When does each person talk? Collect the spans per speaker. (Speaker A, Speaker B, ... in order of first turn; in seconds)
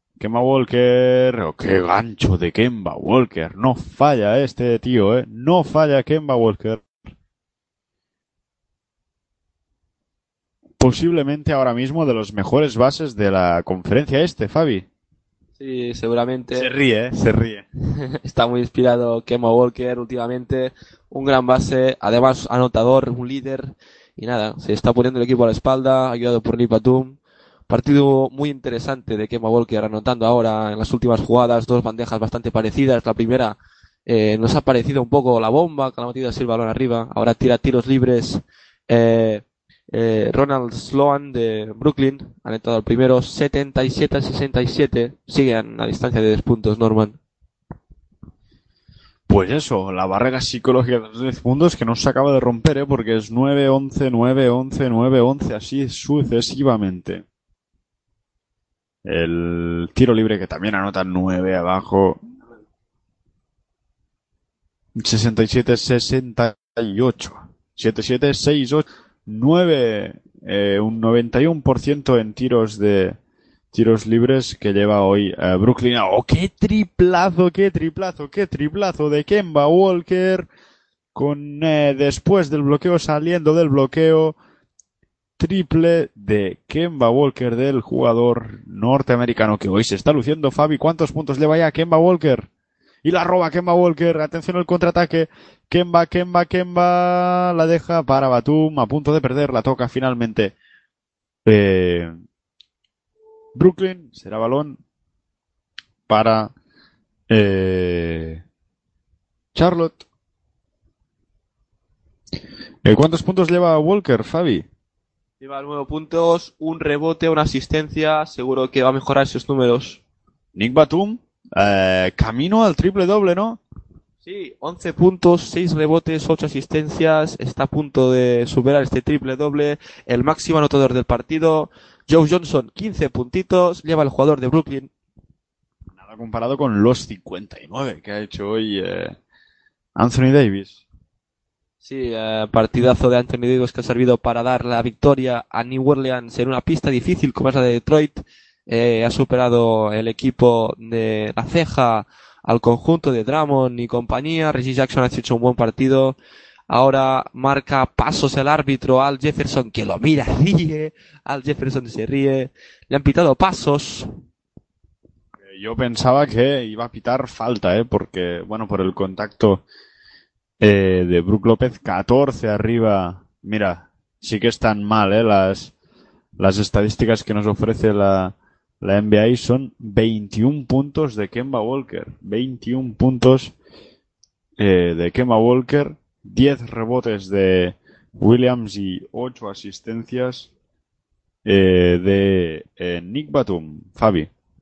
Speaker A: 0.2-6.9, 10.8-14.9, 16.6-17.6, 49.3-57.2, 59.0-62.2, 65.0-73.2, 73.7-80.5, 81.2-84.4, 85.4-92.5, 93.0-100.5, 101.5-102.1, 103.5-104.8, 106.1-106.5, 107.3-108.4, 109.5-110.0, 112.8-114.7, 120.5-123.6, 136.0-139.2, 140.0-140.8, 165.5-169.6, 170.6-175.7, 176.4-183.5, 184.6-190.5, 191.4-194.3
Speaker B: 15.6-16.7, 18.1-27.2, 27.7-47.2, 115.4-120.0, 124.2-134.9, 141.8-156.2, 156.7-164.1